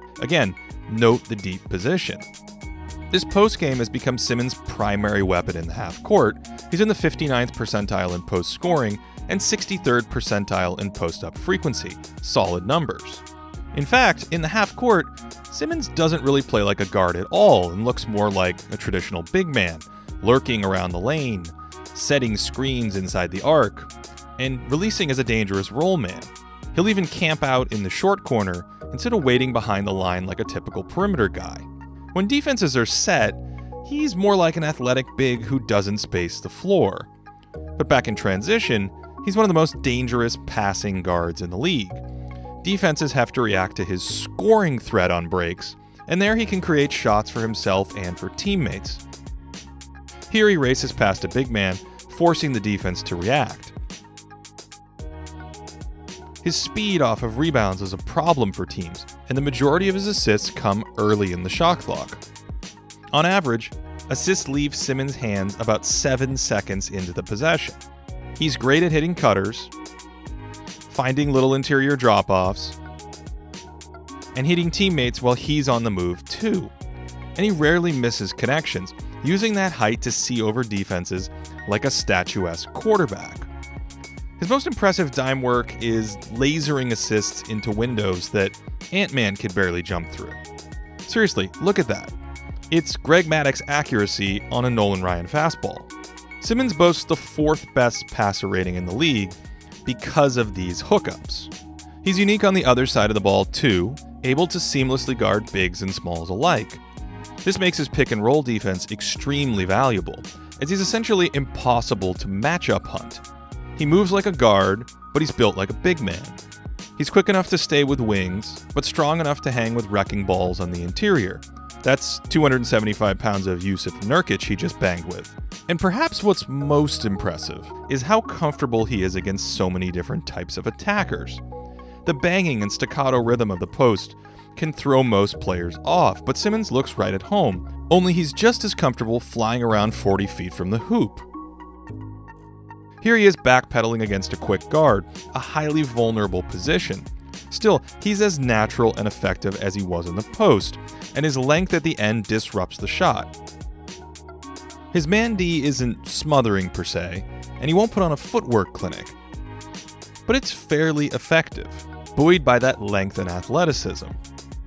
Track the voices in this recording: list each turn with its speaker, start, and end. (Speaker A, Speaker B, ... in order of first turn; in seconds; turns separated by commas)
Speaker A: 0.2-2.3, Speaker A: 3.1-37.1, Speaker A: 37.8-42.0, Speaker A: 42.6-49.0, Speaker A: 50.3-53.7, Speaker A: 56.4-62.2, Speaker A: 63.1-67.8, Speaker A: 68.4-69.7, Speaker A: 70.9-72.8, Speaker A: 74.3-76.7, Speaker A: 77.4-83.5, Speaker A: 84.4-90.4, Speaker A: 91.1-92.1, Speaker A: 92.7-95.9, Speaker A: 96.4-101.5, Speaker A: 102.0-106.8, Speaker A: 107.4-113.2, Speaker A: 113.8-116.4, Speaker A: 117.0-131.4, Speaker A: 132.1-141.3, Speaker A: 143.0-153.3, Speaker A: 154.9-159.2, Speaker A: 160.3-164.2